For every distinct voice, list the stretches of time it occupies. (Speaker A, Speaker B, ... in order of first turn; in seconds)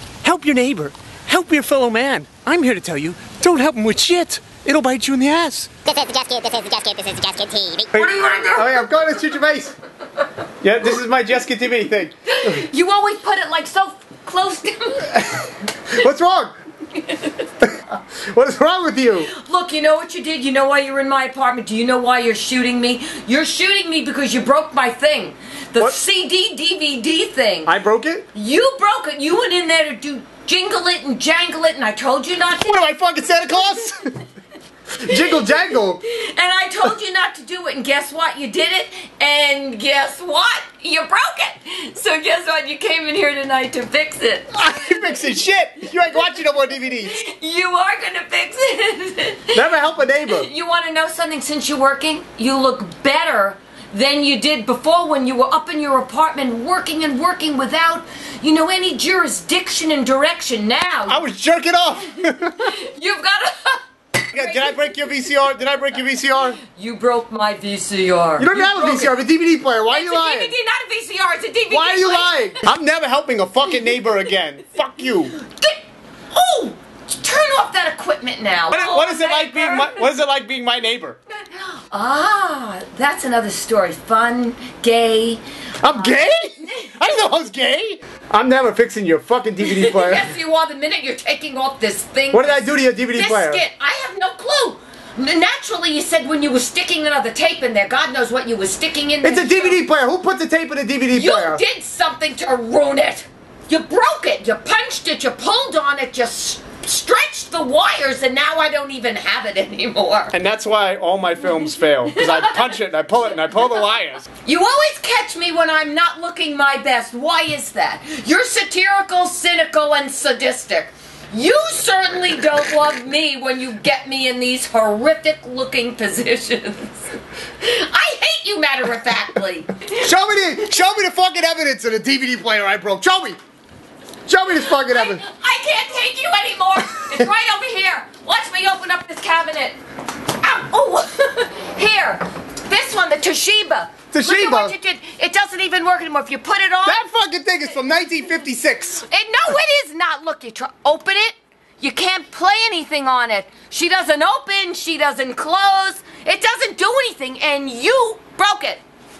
Speaker A: 0.2-5.7, 7.9-9.7, 10.6-12.6, 15.9-16.5, 17.6-19.3, 27.6-28.2, 32.6-34.1, 35.0-36.0, 44.5-47.2, 49.5-50.5, 61.1-62.7, 64.3-66.6, 68.4-70.5, 71.7-75.3, 78.7-81.2, 85.8-90.3, 92.3-93.6, 99.2-101.6, 110.3-114.2, 130.0-133.4, 134.3-135.2, 144.1-144.7, 146.8-149.1
Speaker B: 5.8-7.9
Speaker C: 7.9-8.8, 12.2-15.5, 16.9-17.4, 19.3-27.7, 28.3-32.9, 35.1-44.9, 47.0-49.7, 50.3-61.2, 62.4-64.8, 66.6-69.1, 69.9-72.6, 75.2-80.1, 81.5-87.0, 89.6-99.8, 101.1-110.3, 112.1-112.7, 114.4-130.1, 134.8-139.8, 140.4-147.1, 149.1-158.8